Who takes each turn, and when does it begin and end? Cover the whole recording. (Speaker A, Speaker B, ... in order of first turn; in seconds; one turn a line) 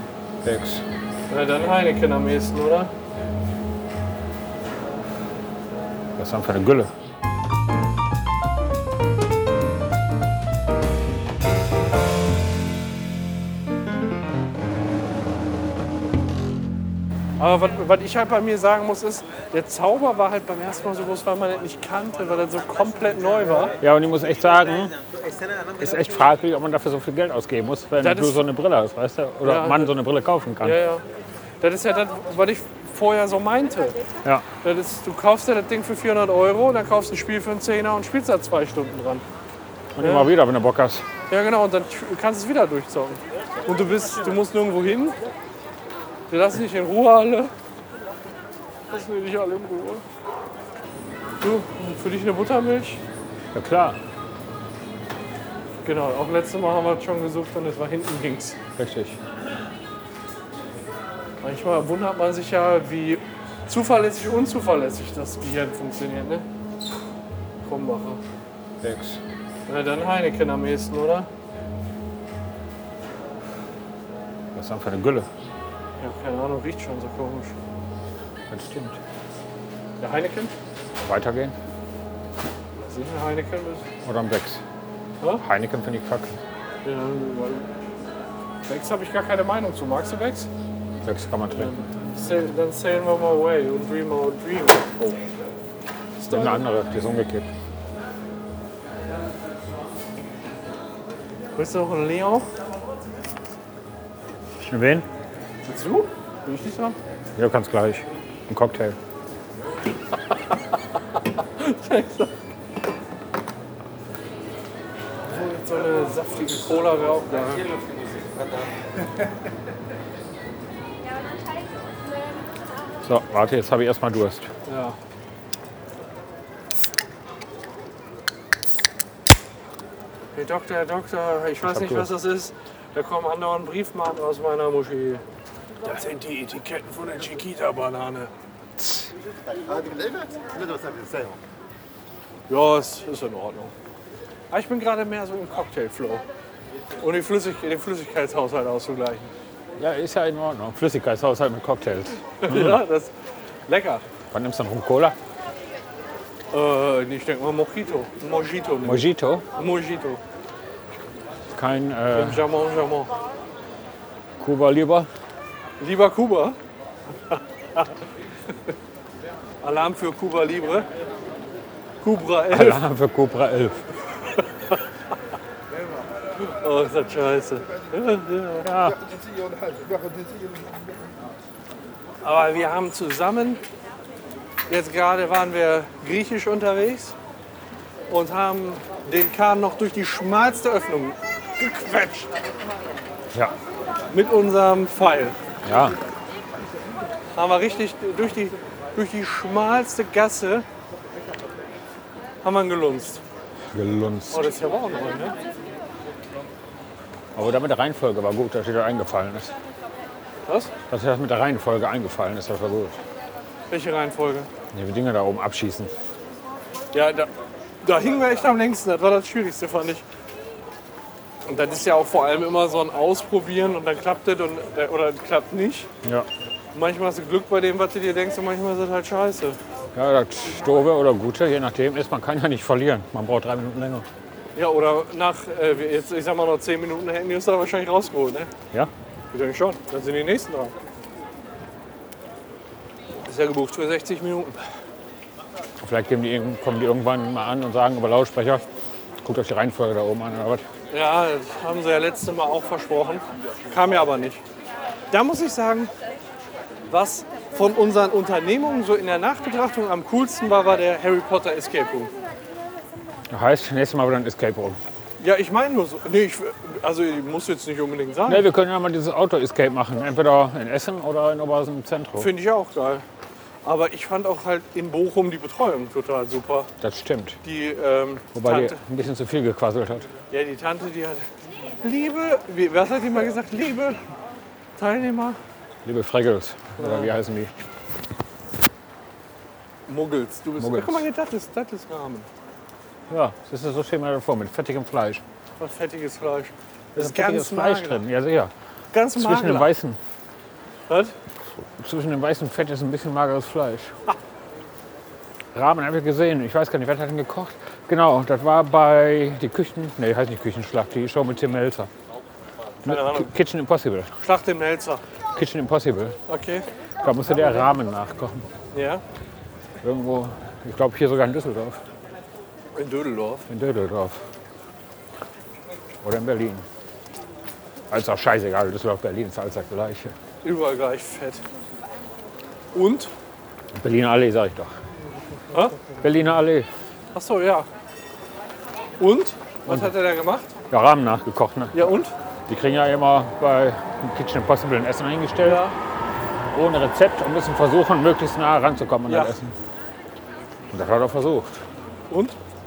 Speaker A: 0.4-0.8
Speaker B: 1.3-2.9
Speaker A: 6.2-6.9
Speaker B: 17.4-23.8
Speaker A: 23.8-25.0
Speaker A: 25.8-30.8
Speaker B: 28.0-28.4
Speaker B: 29.4-29.9
Speaker B: 30.6-31.0
Speaker B: 31.6-34.0
Speaker B: 34.6-39.2
Speaker A: 40.0-41.0
Speaker B: 40.0-40.3
Speaker B: 41.3-45.2
Speaker B: 46.3-47.5
Speaker B: 48.9-50.0
Speaker B: 51.4-53.0
Speaker A: 53.5-54.0
Speaker B: 55.8-58.6
Speaker A: 58.8-59.2
Speaker B: 61.4-66.5
Speaker B: 67.6-68.2
Speaker A: 68.8-69.2
Speaker B: 69.7-71.3
Speaker A: 74.5-75.3
Speaker B: 76.0-77.5
Speaker A: 78.5-79.0
Speaker B: 80.0-80.5
Speaker A: 81.0-81.5
Speaker B: 82.9-83.8
Speaker A: 84.0-84.6
Speaker A: 85.4-86.3
Speaker B: 86.8-87.7
Speaker B: 88.7-90.5
Speaker A: 91.0-91.7
Speaker B: 91.5-95.2
Speaker B: 96.2-96.7
Speaker A: 96.3-97.5
Speaker B: 101.6-102.5
Speaker A: 104.7-105.1
Speaker B: 105.6-107.0
Speaker A: 107.4-109.0
Speaker B: 111.4-112.3
Speaker B: 115.3-117.8
Speaker A: 123.0-124.5
Speaker B: 124.7-125.0
Speaker B: 130.3-135.2
Speaker A: 131.6-132.1
Speaker B: 135.8-138.3
Speaker B: 142.5-143.7
Speaker B: 144.5-146.2
Speaker B: 147.0-149.3
Speaker A: 149.8-152.8
Speaker B: 152.4-153.1
Speaker B: 153.7-154.0
Speaker A: 154.3-155.2
Speaker B: 156.5-160.2
Speaker A: 158.8-159.4
Speaker A: 161.5-162.4
Speaker B: 162.1-163.1
Speaker A: 164.4-165.1
Speaker B: 165.8-166.6
Speaker B: 167.3-167.9
Speaker B: 169.6-170.9
Speaker B: 172.0-172.8
Speaker A: 172.5-173.8
Speaker B: 176.4-178.7
Speaker A: 178.6-179.0
Speaker B: 182.2-183.6
Speaker B: 184.7-187.1
Speaker B: 188.1-192.3
Speaker B: 194.1-195.3
Speaker A: 195.6-195.9
Speaker B: 197.3-200.6
Speaker B: 202.4-203.2
Speaker A: 203.7-204.5
Speaker B: 204.3-205.3
Speaker A: 207.3-209.5
Speaker B: 210.5-210.7
Speaker A: 210.9-213.0
Speaker B: 213.7-214.5
Speaker A: 214.7-215.9
Speaker B: 216.9-217.3
Speaker B: 217.8-220.0
Speaker B: 221.4-225.9
Speaker B: 226.7-229.6
Speaker A: 229.9-234.1
Speaker B: 234.5-238.5
Speaker B: 239.3-240.7
Speaker B: 243.2-244.6
Speaker A: 245.8-248.6
Speaker A: 249.2-250.6
Speaker B: 250.9-254.4
Speaker B: 255.1-255.9
Speaker B: 256.9-262.1
Speaker A: 263.3-264.8
Speaker B: 265.2-268.5
Speaker A: 268.2-272.3
Speaker B: 272.2-273.0
Speaker B: 273.6-276.7
Speaker A: 276.8-277.4
Speaker B: 277.4-278.8
Speaker A: 278.3-280.1
Speaker B: 280.3-281.2
Speaker B: 281.8-284.0
Speaker B: 284.8-285.4
Speaker A: 285.8-287.5
Speaker B: 286.8-287.1
Speaker B: 289.9-292.3
Speaker A: 290.6-291.1
Speaker A: 293.1-295.2
Speaker B: 295.6-298.0
Speaker A: 296.9-298.5
Speaker B: 298.9-299.7
Speaker A: 299.1-300.0
Speaker B: 300.9-301.1
Speaker A: 301.8-303.9
Speaker A: 305.5-311.9
Speaker A: 312.8-314.1
Speaker B: 312.8-313.3
Speaker B: 314.2-315.0
Speaker A: 315.3-316.1
Speaker B: 316.3-316.7
Speaker A: 317.0-318.4
Speaker B: 318.7-319.0
Speaker A: 319.8-321.8
Speaker B: 322.8-323.4
Speaker A: 323.5-324.2
Speaker A: 326.0-326.6
Speaker A: 327.9-330.1
Speaker B: 330.4-331.4
Speaker B: 332.7-333.1
Speaker A: 333.8-334.7
Speaker B: 335.5-335.9
Speaker A: 336.0-336.7
Speaker B: 337.1-337.7
Speaker B: 339.0-340.5
Speaker A: 339.7-339.9
Speaker A: 340.7-341.9
Speaker B: 341.7-342.1
Speaker A: 342.5-345.6
Speaker B: 345.4-345.8
Speaker A: 346.5-349.5
Speaker B: 349.1-349.3
Speaker A: 350.7-351.6
Speaker B: 352.1-352.4